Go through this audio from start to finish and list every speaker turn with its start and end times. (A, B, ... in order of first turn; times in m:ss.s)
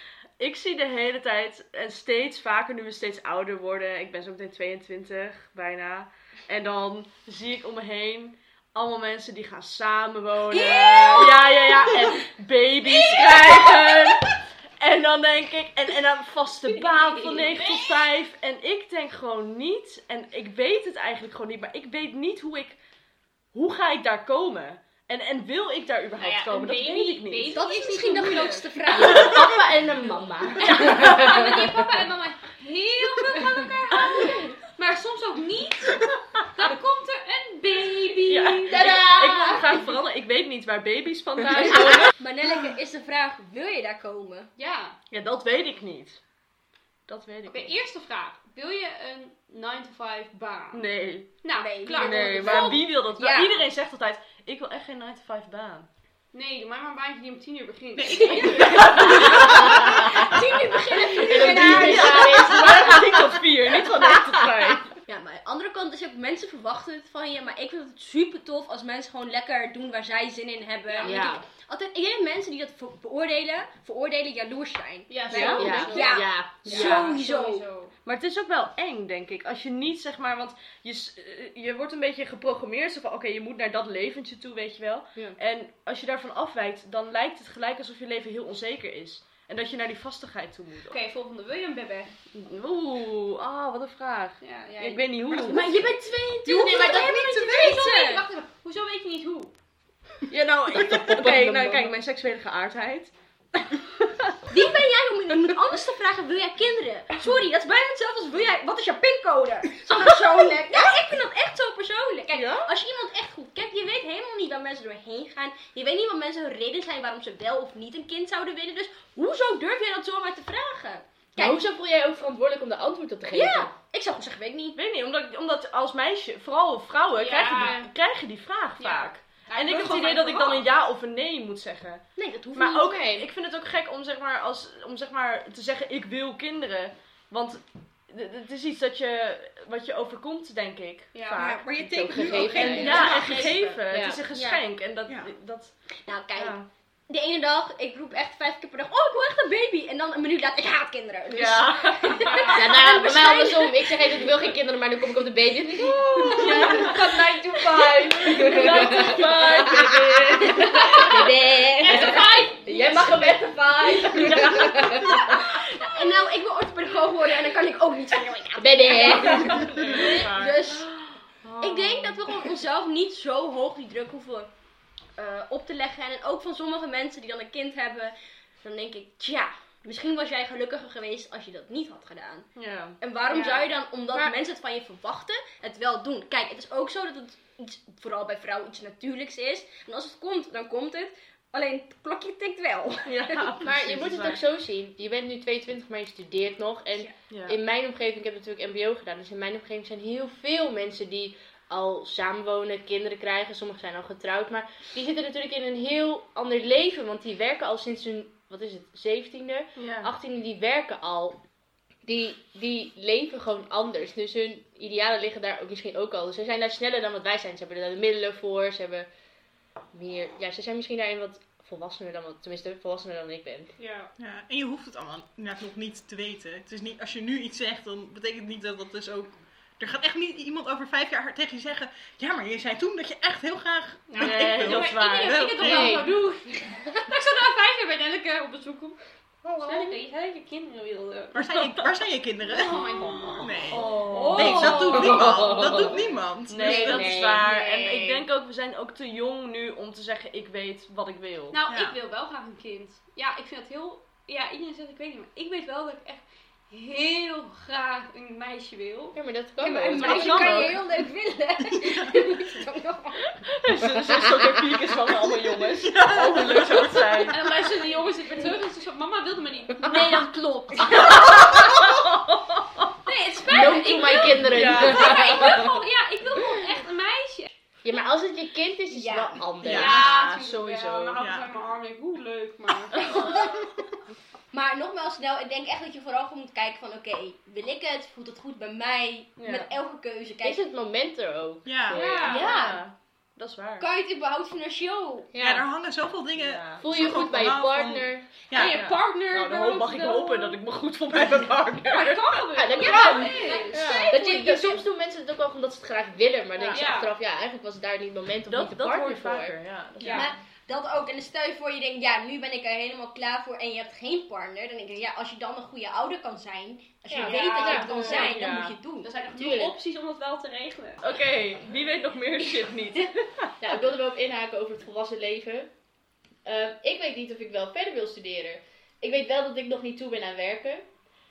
0:00.4-0:22.8 A
0:10.5-0:11.4 B
0:13.0-0:13.8 B
0:16.7-0:18.0 C
0:23.5-0:27.6 A
0:26.2-0:28.7 C
0:27.5-0:29.5 B
0:28.9-0:31.8 D
0:30.6-0:38.9 C
0:38.3-0:42.1 A
0:38.7-0:39.7 B
0:38.7-0:39.7 D
0:42.1-0:44.5 B
0:44.6-0:45.0 C
0:45.1-0:46.2 A
0:47.1-0:47.8 A
0:47.5-0:50.8 C
0:50.7-0:51.4 A
0:51.4-0:52.8 C
0:51.6-0:53.5 B
0:52.0-0:55.9 A
0:56.3-0:59.6 C
0:58.0-0:59.8 E
0:58.1-1:02.8 B
0:58.6-0:59.8 A
0:59.6-1:00.1 D
1:01.1-1:04.8 D
1:01.2-1:04.9 A
1:05.1-1:17.6 B
1:10.9-1:11.3 C
1:11.0-1:11.4 D
1:15.1-1:18.0 C
1:15.3-1:15.9 A
1:15.3-1:17.1 D
1:18.0-1:31.0 A
1:30.9-1:32.2 C
1:32.3-1:35.8 A
1:34.4-1:35.1 C
1:35.3-1:38.2 B
1:36.5-1:39.5 C
1:40.3-1:44.6 A
1:40.8-1:41.9 D
1:44.5-2:01.6 B
1:50.3-1:50.8 A
1:52.3-1:52.7 A
2:01.4-2:03.7 D
2:03.3-2:04.8 B
2:04.8-2:25.8 A
2:07.2-2:07.8 C
2:07.5-2:07.8 B
2:08.8-2:10.7 C
2:12.2-2:13.1 B
2:12.8-2:13.2 D
2:21.1-2:23.5 C
2:21.4-2:23.6 E
2:22.0-2:23.1 D
2:22.6-2:23.6 B
2:23.9-2:24.2 D
2:24.3-2:24.6 B
2:25.1-2:25.3 E
2:26.1-2:34.2 B
2:26.4-2:26.6 A
2:31.3-2:32.5 A
2:32.2-2:32.6 C
2:32.5-2:45.4 D
2:36.2-2:38.6 C
2:36.2-2:41.3 A
2:36.4-2:37.0 B
2:38.6-2:39.5 B
2:40.5-2:50.9 B
2:41.8-2:42.9 C
2:44.1-2:45.1 A
2:48.6-2:49.8 D
2:49.0-2:52.5 A
2:51.6-2:54.5 B
2:55.2-3:13.5 B
3:02.6-3:03.0 A
3:03.2-3:03.7 C
3:13.1-3:14.4 A
3:13.6-3:31.4 D
3:17.3-3:17.6 A
3:29.8-3:30.1 A
3:32.0-3:39.1 D
3:39.9-3:43.7 D
3:43.8-3:44.1 C
3:44.2-3:56.0 E
3:54.1-3:59.0 C
3:54.2-3:55.7 A
3:55.6-3:56.2 D
3:59.6-4:01.4 C
4:01.3-4:07.2 E
4:01.6-4:01.8 A
4:02.5-4:05.2 C
4:03.7-4:05.4 A
4:04.9-4:06.0 D
4:06.5-4:11.6 A
4:06.6-4:08.2 D
4:11.5-4:19.2 C
4:11.7-4:12.0 E
4:19.2-4:20.5 D
4:19.6-4:23.3 B
4:20.0-4:20.8 A
4:20.0-4:20.4 C
4:21.8-4:22.1 E
4:23.4-4:27.4 A
4:24.0-4:24.5 D
4:25.7-4:27.3 E
4:27.3-4:31.9 C
4:30.7-4:31.1 B
4:30.9-4:32.9 A
4:33.0-4:37.5 C
4:33.5-4:35.8 D
4:34.3-4:35.4 A
4:37.8-4:40.2 D
4:38.9-4:39.4 B
4:39.6-4:41.2 A
4:39.6-4:40.0 E
4:39.7-4:43.3 C
4:41.2-4:41.5 E
4:43.0-4:43.6 B
4:44.5-4:50.6 B
4:49.4-4:49.7 A
4:50.4-4:52.7 D
4:51.6-4:52.0 E
4:51.9-4:52.5 C
4:52.0-4:52.8 B
4:52.2-4:53.9 A
4:53.8-4:55.3 B
4:55.3-4:58.8 E
4:55.4-4:55.6 D
4:56.4-4:56.8 A
4:56.8-4:58.3 D
4:58.5-5:00.6 C
4:58.6-5:02.5 A
5:01.2-5:01.5 E
5:01.9-5:04.3 C
5:02.5-5:09.6 D
5:02.8-5:04.8 B
5:03.7-5:04.1 A
5:06.6-5:06.8 A
5:06.7-5:07.1 C
5:08.5-5:10.3 A
5:10.0-5:10.3 C
5:10.1-5:19.1 B
5:17.1-5:18.3 D
5:17.2-5:18.4 C
5:17.6-5:18.8 A
5:19.0-5:21.0 C
5:19.3-5:19.7 D
5:21.0-5:23.5 A
5:23.6-5:25.7 D
5:26.4-5:30.9 D